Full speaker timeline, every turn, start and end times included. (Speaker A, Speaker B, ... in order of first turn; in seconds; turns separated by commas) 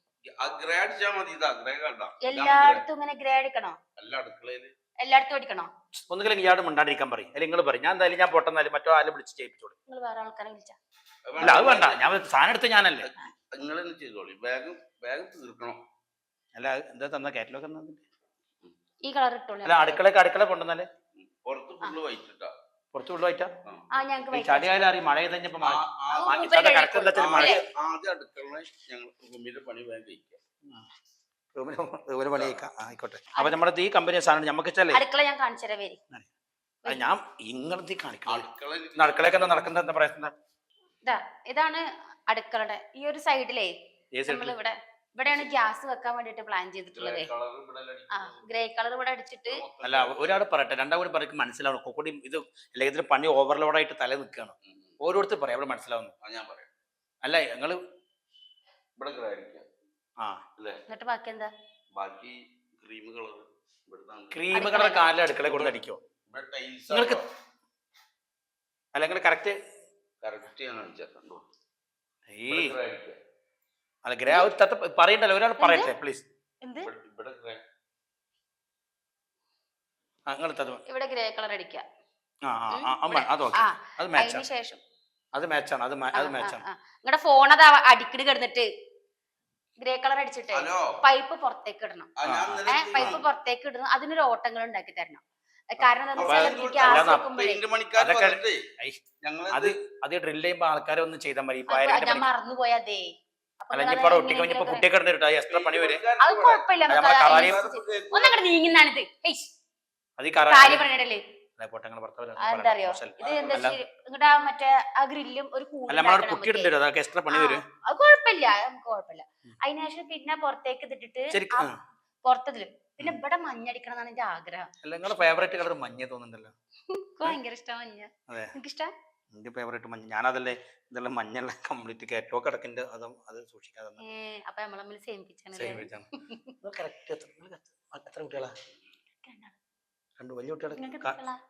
Speaker A: 0.3-2.8, Speaker B: 2.2-3.8, Speaker A: 4.0-4.7, Speaker B: 5.0-5.7, Speaker C: 5.9-9.7, Speaker B: 9.9-10.8, Speaker A: 11.2-12.2, Speaker B: 11.4-11.7, Speaker C: 11.4-13.1, Speaker A: 13.0-15.8, Speaker C: 16.5-18.0, Speaker B: 19.0-20.0, Speaker C: 19.6-20.9, Speaker A: 21.2-22.5, Speaker C: 22.9-23.5, Speaker B: 23.9-24.9, Speaker C: 24.3-27.6, Speaker A: 25.6-30.4, Speaker B: 26.1-27.6, Speaker C: 31.5-35.0, Speaker A: 32.4-32.6, Speaker B: 34.9-36.0, Speaker B: 36.8-37.1, Speaker C: 36.9-38.5, Speaker A: 38.2-39.7, Speaker C: 39.0-40.3, Speaker B: 41.0-43.7, Speaker C: 44.1-44.5, Speaker B: 44.3-47.3, Speaker A: 45.2-45.5, Speaker A: 46.9-48.5, Speaker B: 48.1-49.6, Speaker A: 49.5-50.4, Speaker C: 49.8-56.1, Speaker A: 54.6-55.0, Speaker A: 56.2-56.7, Speaker C: 57.2-57.8, Speaker A: 59.0-59.7, Speaker B: 60.9-61.5, Speaker A: 62.0-64.6, Speaker C: 64.3-66.0, Speaker B: 64.5-65.1, Speaker A: 65.3-67.2, Speaker C: 66.9-67.2, Speaker C: 68.9-69.5, Speaker A: 70.2-71.4, Speaker C: 72.3-72.8, Speaker A: 72.5-73.2, Speaker C: 74.0-76.2, Speaker B: 75.6-75.9, Speaker B: 76.6-76.9, Speaker A: 76.8-77.6, Speaker C: 80.3-80.8, Speaker B: 80.9-81.8, Speaker C: 82.4-84.5, Speaker B: 82.7-84.8, Speaker C: 85.3-86.6, Speaker B: 86.1-88.7, Speaker B: 89.8-92.1, Speaker A: 90.5-91.0, Speaker A: 92.2-93.2, Speaker C: 92.2-93.2, Speaker B: 92.7-97.6, Speaker A: 96.2-98.7, Speaker C: 96.2-97.2, Speaker C: 98.0-102.3, Speaker A: 99.2-99.7, Speaker B: 101.7-103.1, Speaker B: 103.6-104.8, Speaker C: 103.7-106.0, Speaker A: 105.5-108.4, Speaker B: 106.2-109.5, Speaker C: 106.9-107.6, Speaker C: 110.2-110.9, Speaker B: 110.5-111.2, Speaker C: 111.6-113.8, Speaker B: 112.4-116.7, Speaker A: 113.2-113.7, Speaker C: 115.9-117.6, Speaker B: 117.3-121.7, Speaker C: 121.3-121.8, Speaker B: 122.2-125.3, Speaker C: 124.8-126.5, Speaker B: 126.9-128.9, Speaker C: 129.3-134.0, Speaker B: 134.0-136.5, Speaker C: 135.5-136.1, Speaker C: 136.6-138.5, Speaker B: 139.2-139.6, Speaker C: 140.2-141.2, Speaker B: 140.7-141.4